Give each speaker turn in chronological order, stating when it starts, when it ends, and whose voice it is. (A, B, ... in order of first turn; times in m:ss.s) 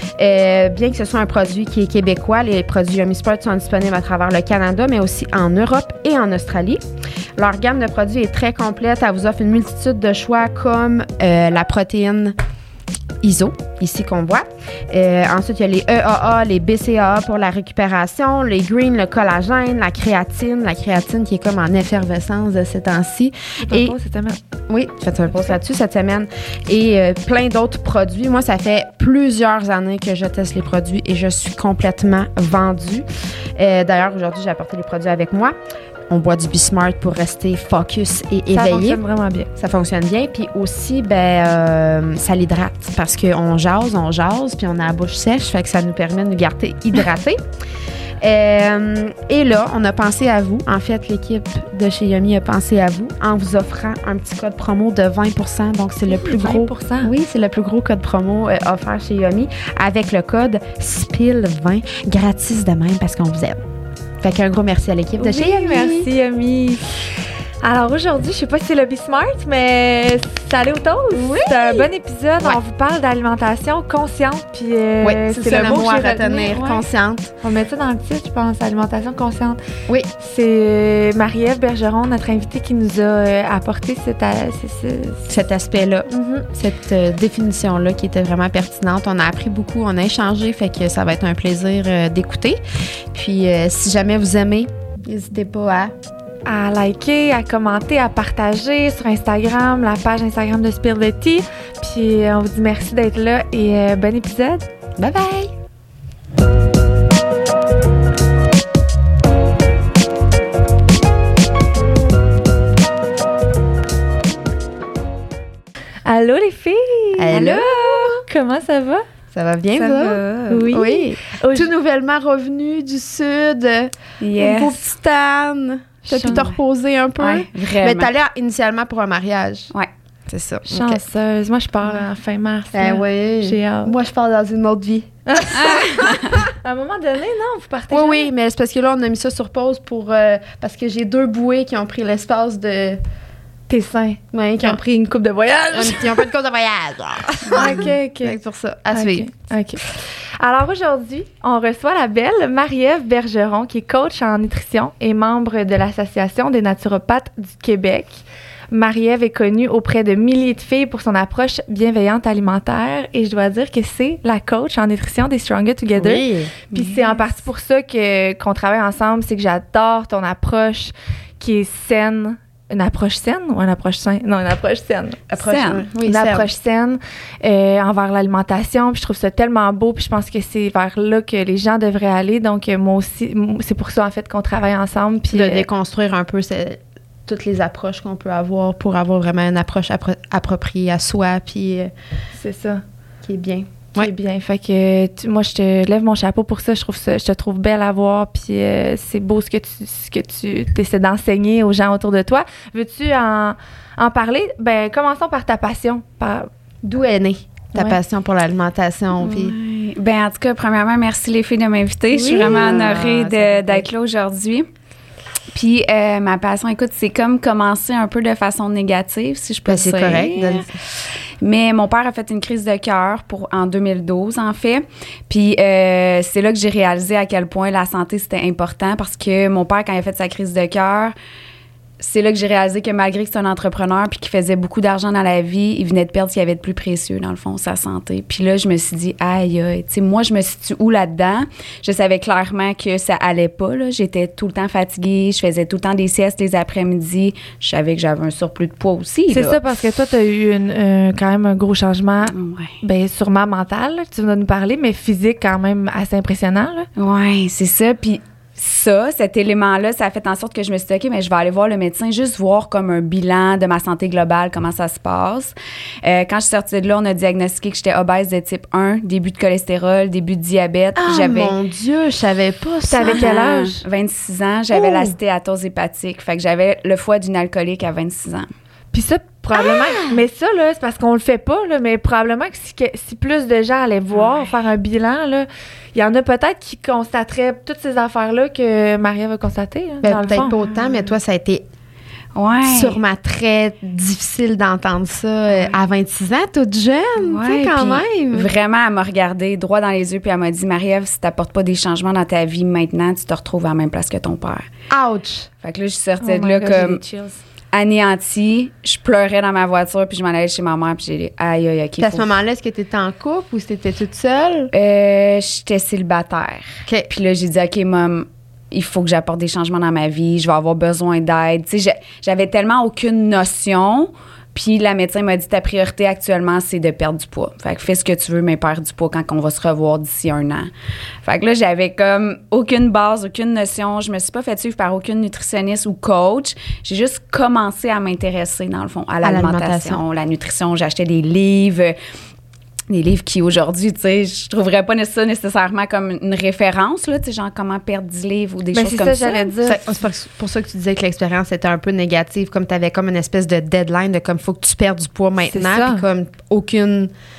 0:00.2-0:06.8 A
0:07.4-0:12.4 A
0:13.2-0:24.0 A
0:23.6-0:24.4 B
0:24.7-0:35.6 A
0:36.1-0:39.0 A
0:38.5-0:39.5 B
0:39.6-0:47.4 A
0:48.2-1:03.6 A
0:56.1-0:57.1 B
1:04.2-1:06.1 A
1:05.2-1:07.0 B
1:07.6-1:16.8 B
1:11.2-1:11.9 A
1:15.0-1:17.3 A
1:17.4-1:19.6 B
1:20.2-1:25.3 B
1:25.3-1:32.6 A
1:26.1-1:26.5 B
1:33.1-1:35.9 A
1:36.5-1:44.7 B
1:45.0-1:45.5 A
1:56.1-1:59.1 B
1:57.2-1:57.7 A
1:57.3-1:58.2 C
1:59.3-2:09.7 A
1:59.8-2:01.7 B
2:00.0-2:00.7 C
2:04.2-2:04.8 C
2:06.0-2:06.6 B
2:07.2-2:08.1 C
2:10.3-2:11.0 A
2:10.7-2:13.9 B
2:12.7-2:15.8 A
2:15.3-2:15.8 B
2:15.6-2:16.4 C
2:16.6-2:18.3 B
2:17.9-2:23.0 A
2:23.7-2:26.2 B
2:24.3-2:24.8 A
2:25.7-2:29.5 A
2:27.5-2:27.8 C
2:27.6-2:28.4 B
2:28.9-2:29.8 B
2:30.4-2:55.2 B
2:46.0-2:46.5 A
2:55.3-2:56.5 A
2:55.4-2:55.9 C
2:56.0-3:05.7 B
3:05.3-3:11.9 A
3:12.3-3:12.8 B
3:13.2-3:14.1 A
3:14.0-3:26.5 B
3:26.8-3:29.6 A
3:29.2-3:34.7 C
3:32.2-3:32.8 B
3:32.2-3:33.9 A
3:35.5-3:51.2 C
3:39.7-3:40.7 A
3:52.0-4:09.6 C
4:09.3-4:16.9 B
4:12.3-4:12.8 C
4:17.0-4:31.6 C
4:31.0-4:33.3 A
4:32.9-4:33.8 B
4:33.0-4:38.5 C
4:34.7-4:35.2 A
4:38.9-4:50.5 B
4:39.6-4:40.1 A
4:50.0-4:51.6 A
4:52.4-4:53.0 C
4:52.6-4:58.5 A
4:57.2-5:04.7 C
5:04.9-5:05.5 A
5:05.6-5:07.0 C
5:06.2-5:07.4 B
5:07.7-5:12.3 C
5:12.0-5:14.7 A
5:14.7-5:30.7 C
5:31.2-5:42.0 C
5:39.2-5:40.0 A
5:42.9-5:49.5 C
5:48.7-5:49.8 B
5:49.6-5:57.1 A
5:55.4-5:56.0 B